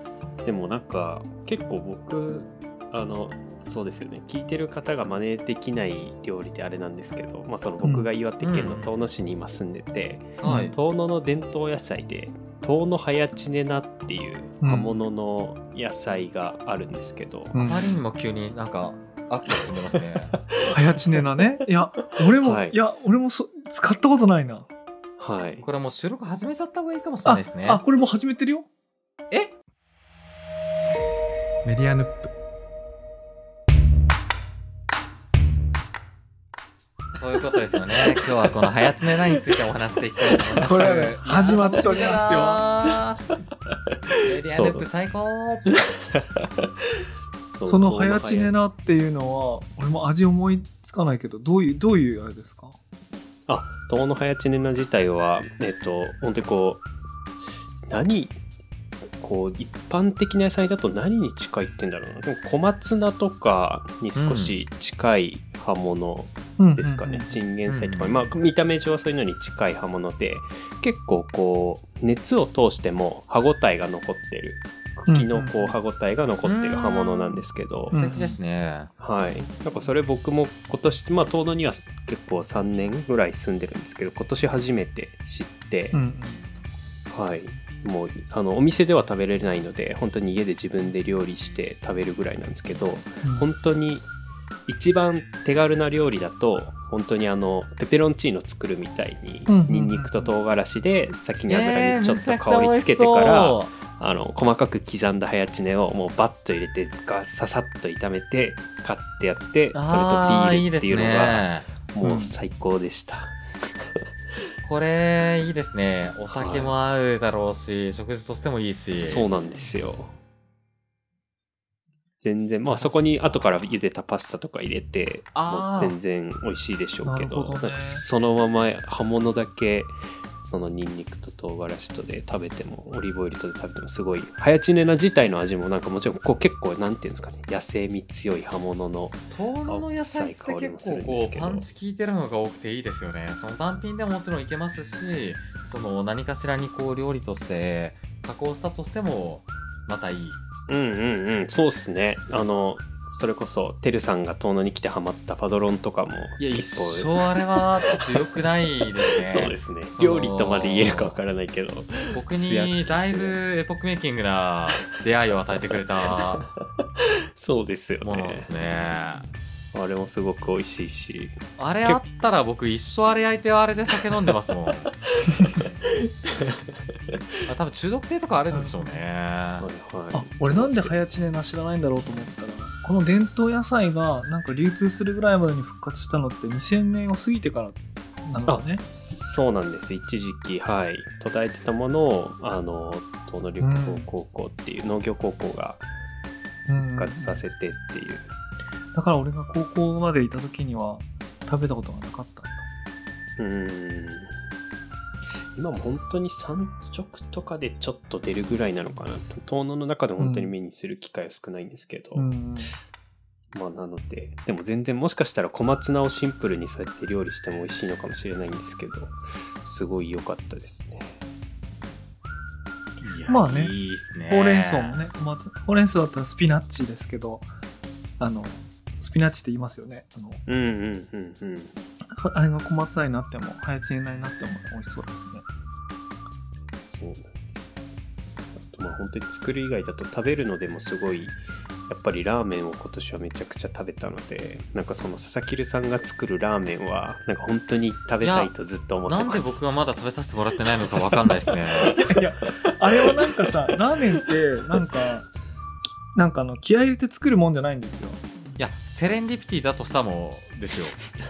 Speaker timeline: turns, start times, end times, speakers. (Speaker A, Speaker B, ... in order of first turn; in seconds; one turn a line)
Speaker A: 0.4-17.5
Speaker B: 7.8-8.1
Speaker C: 8.4-8.9
Speaker C: 10.4-10.7
Speaker B: 10.4-10.7
Speaker B: 14.6-15.0
Speaker B: 17.5-18.0
Speaker C: 17.6-20.3
Speaker B: 20.7-24.7
Speaker A: 22.4-22.8
Speaker A: 25.2-25.6
Speaker C: 25.6-27.8
Speaker B: 27.2-28.7
Speaker B: 31.6-32.3
Speaker C: 37.2-43.3
Speaker A: 40.3-40.8
Speaker B: 40.6-42.6
Speaker C: 44.2-45.8
Speaker A: 44.4-44.8
Speaker A: 47.5-48.5
Speaker B: 47.6-52.8
Speaker A: 53.5-56.8
Speaker A: 57.9-58.4
Speaker A: 59.2-77.9
Speaker C: 64.1-64.6
Speaker B: 66.6-67.3
Speaker C: 67.7-68.3
Speaker B: 75.1-75.7
Speaker C: 76.4-78.9
Speaker B: 77.9-78.4
Speaker A: 79.0-86.0
Speaker B: 85.9-86.4
Speaker A: 87.1-94.1
Speaker B: 93.2-93.5
Speaker A: 94.7-113.3
Speaker B: 99.5-100.3
Speaker C: 101.5-103.7
Speaker C: 109.7-111.7
Speaker B: 112.0-112.3
Speaker C: 114.6-119.3
Speaker A: 116.3-116.7
Speaker A: 118.9-120.2
Speaker A: 122.2-141.7
Speaker C: 122.5-123.7
Speaker C: 125.3-126.0
Speaker B: 127.0-128.0
Speaker C: 139.3-150.4
Speaker A: 150.7-158.2
Speaker C: 156.4-161.2
Speaker A: 159.0-163.4
Speaker C: 162.1-166.4
Speaker A: 165.7-166.3
Speaker A: 167.4-168.5
Speaker C: 168.0-169.3
Speaker A: 169.7-172.0
Speaker C: 171.6-174.9
Speaker A: 175.2-177.2
Speaker C: 177.4-179.7
Speaker B: 178.5-179.0
Speaker A: 179.6-180.9
Speaker B: 180.1-188.8
Speaker A: 188.4-195.9
Speaker B: 193.6-194.1
Speaker B: 196.7-197.4
Speaker A: 196.9-198.3
Speaker B: 198.9-202.7
Speaker A: 203.4-204.3
Speaker A: 205.5-212.3
Speaker B: 210.2-210.5
Speaker B: 212.1-212.7
Speaker A: 213.5-221.2
Speaker C: 223.0-225.0
Speaker B: 223.3-223.7
Speaker B: 224.3-227.5
Speaker B: 228.2-230.4
Speaker A: 230.4-231.8
Speaker B: 232.1-235.4
Speaker A: 236.8-237.9
Speaker A: 238.5-249.6
Speaker C: 248.2-248.5
Speaker C: 249.0-252.0
Speaker A: 250.8-252.1
Speaker B: 252.1-255.3
Speaker B: 256.1-258.2
Speaker C: 258.6-261.0